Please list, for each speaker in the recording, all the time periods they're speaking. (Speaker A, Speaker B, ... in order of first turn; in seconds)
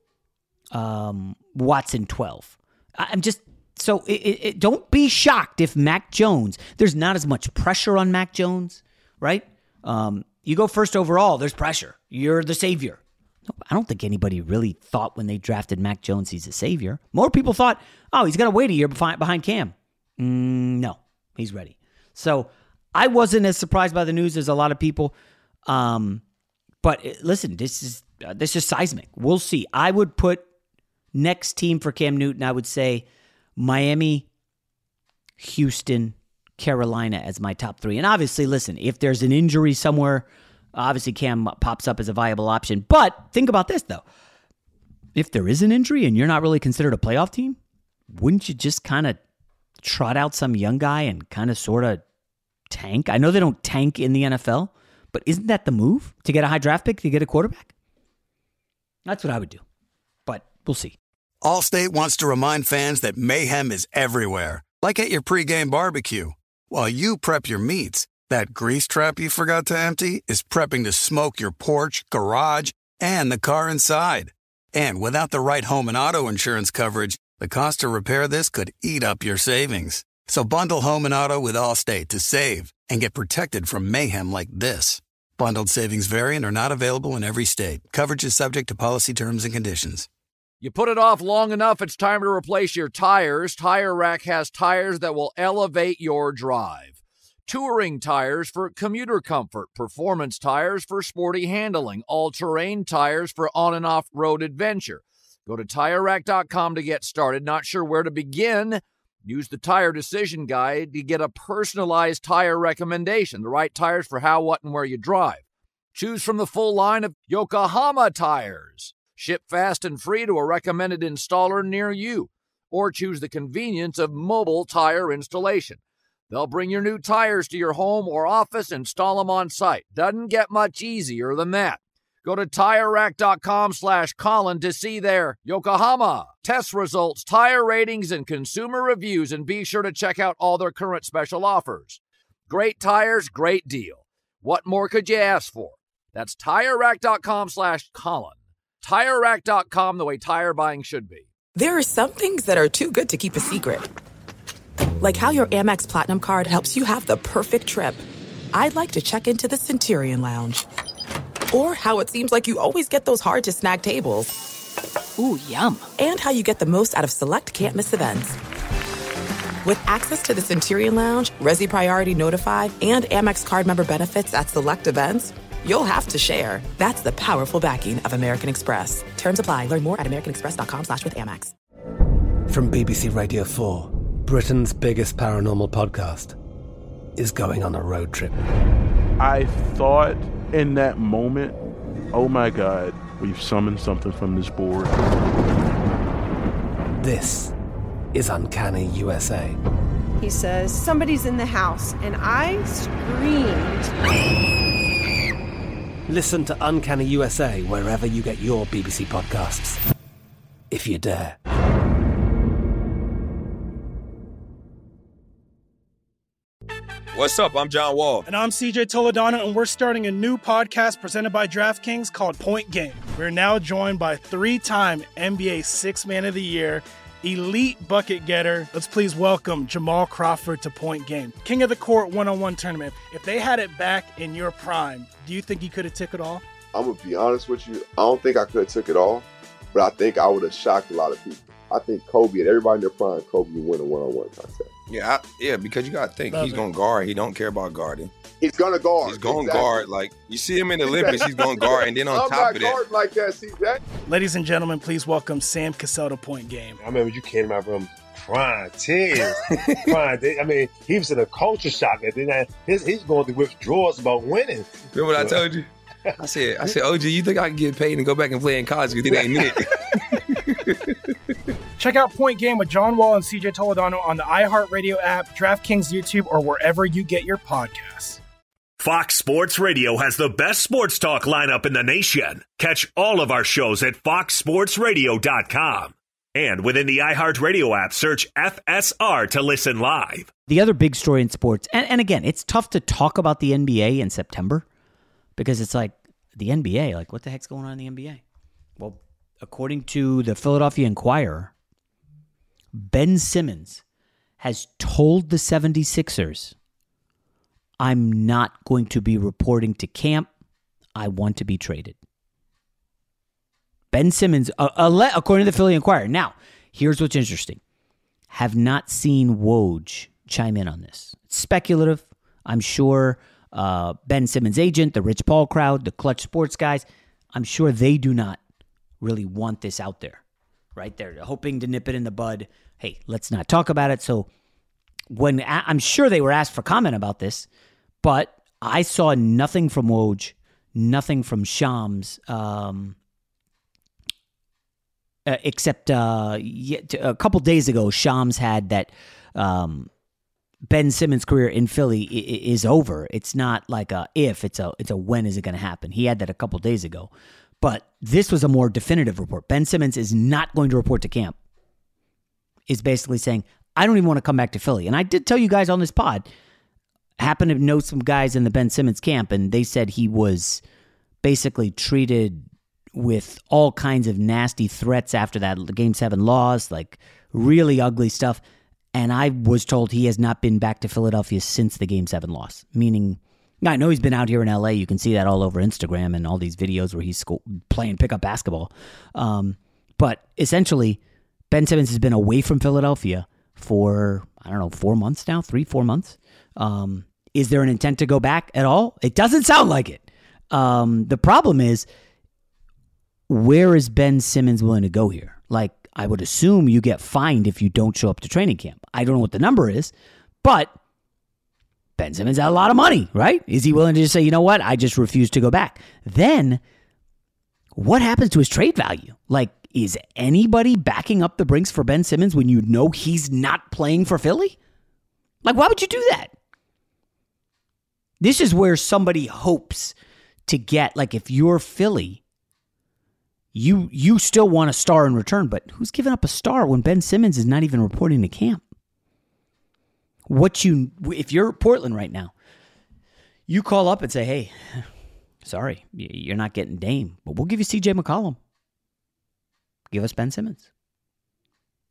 Speaker A: 0.7-25.1, 25.7-26.2, 26.8-30.5, 31.1-33.1, 33.6-34.3, 35.4-44.0, 45.1-47.6, 48.1-49.2, 49.8-52.0, 52.7-57.7, 59.1-59.6, 60.3-61.0, 290.5-294.7, 295.4-298.2, 298.8-301.5, 302.7-303.8, 304.4-306.6, 307.8-310.3, 311.0-312.0, 313.9-317.6, 318.3-328.4, 329.0-330.2, 330.8-334.3, 335.1-337.5, 338.0-343.0, 345.3-349.9, 350.7-361.4, 362.7-366.3, 367.2-370.6, 371.2-378.4, 378.9-391.0, 391.5-401.9, 403.3-410.8, 412.0-416.6, 417.8-424.6, 425.4-426.3, 428.2-429.9, 430.5-432.2, 433.5-438.6, 440.3-442.3, 443.5-444.9, 445.4-448.4, 449.9-450.7
Speaker B: 61.4-90.1
Speaker C: 90.6-115.4, 116.0-151.3
Speaker D: 151.6-153.8, 155.0-160.7, 161.5-164.3, 166.0-168.4, 169.6-181.5
Speaker E: 182.5-186.4, 187.2-188.4, 197.0-197.5, 198.1-199.6, 206.1-209.8, 210.7-211.4
Speaker F: 189.2-191.6, 192.1-195.0
Speaker G: 200.2-203.9
Speaker H: 217.1-218.2, 244.9-248.1, 249.0-252.8, 264.9-270.8
Speaker I: 218.3-236.4, 246.3-246.7, 254.1-256.8, 271.8-278.2
Speaker J: 236.7-244.7, 248.4-249.7, 250.9-251.2, 252.1-253.8
Speaker K: 256.8-265.4
Speaker L: 278.8-290.3